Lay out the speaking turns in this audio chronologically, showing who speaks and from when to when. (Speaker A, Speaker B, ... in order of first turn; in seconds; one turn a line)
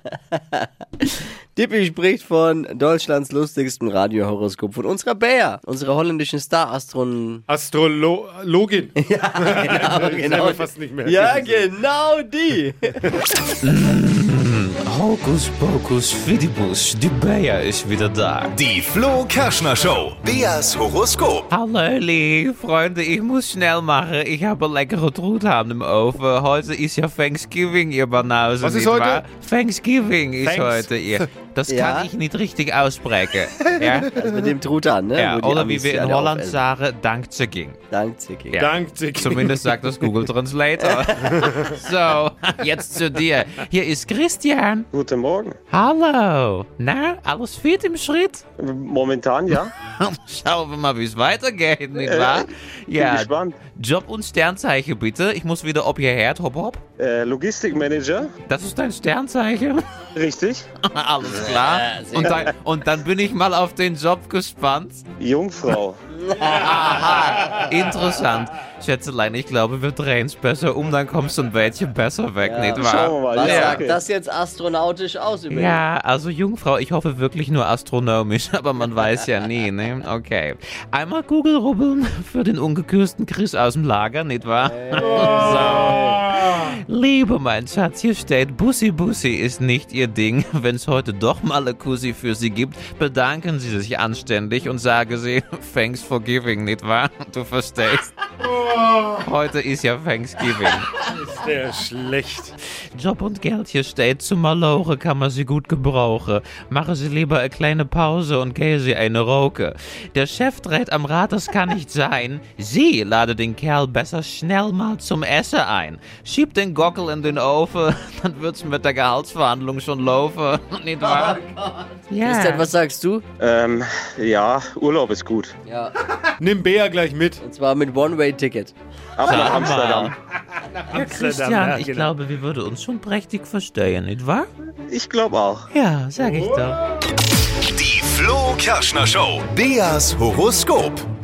Speaker A: 0.3-7.4
Speaker B: 7.5-11.7
Speaker A: 9.0-13.0
Speaker C: 13.6-18.5
Speaker D: 18.5-21.5
Speaker C: 21.5-34.1
Speaker B: 28.6-29.2
Speaker B: 30.4-31.2
Speaker A: 31.7-32.1
Speaker A: 34.0-36.6
Speaker C: 35.2-37.8
Speaker A: 37.9-38.6
Speaker C: 38.5-44.9
Speaker B: 38.6-40.2
Speaker A: 40.8-41.5
Speaker B: 41.4-41.7
Speaker E: 44.9-45.6
Speaker C: 45.7-48.4
Speaker E: 48.6-49.7
Speaker C: 49.5-56.8
Speaker E: 52.0-53.6
Speaker E: 57.0-58.3
Speaker C: 58.5-59.8
Speaker E: 60.1-60.6
Speaker C: 60.9-65.0
Speaker A: 61.6-62.4
Speaker E: 65.2-66.0
Speaker A: 66.3-67.2
Speaker C: 66.4-73.9
Speaker A: 72.4-75.8
Speaker E: 72.8-74.0
Speaker C: 75.5-100.9
Speaker A: 84.6-86.3
Speaker B: 85.3-85.7
Speaker B: 101.0-102.5
Speaker C: 103.0-121.5
Speaker A: 121.0-123.3
Speaker C: 122.1-122.7
Speaker E: 123.4-125.5
Speaker A: 125.7-125.9
Speaker B: 126.4-127.4
Speaker A: 127.4-128.7
Speaker E: 129.2-130.1
Speaker C: 129.2-130.1
Speaker C: 130.9-134.5
Speaker B: 130.9-132.1
Speaker E: 134.9-135.7
Speaker C: 135.7-136.9
Speaker D: 137.7-141.1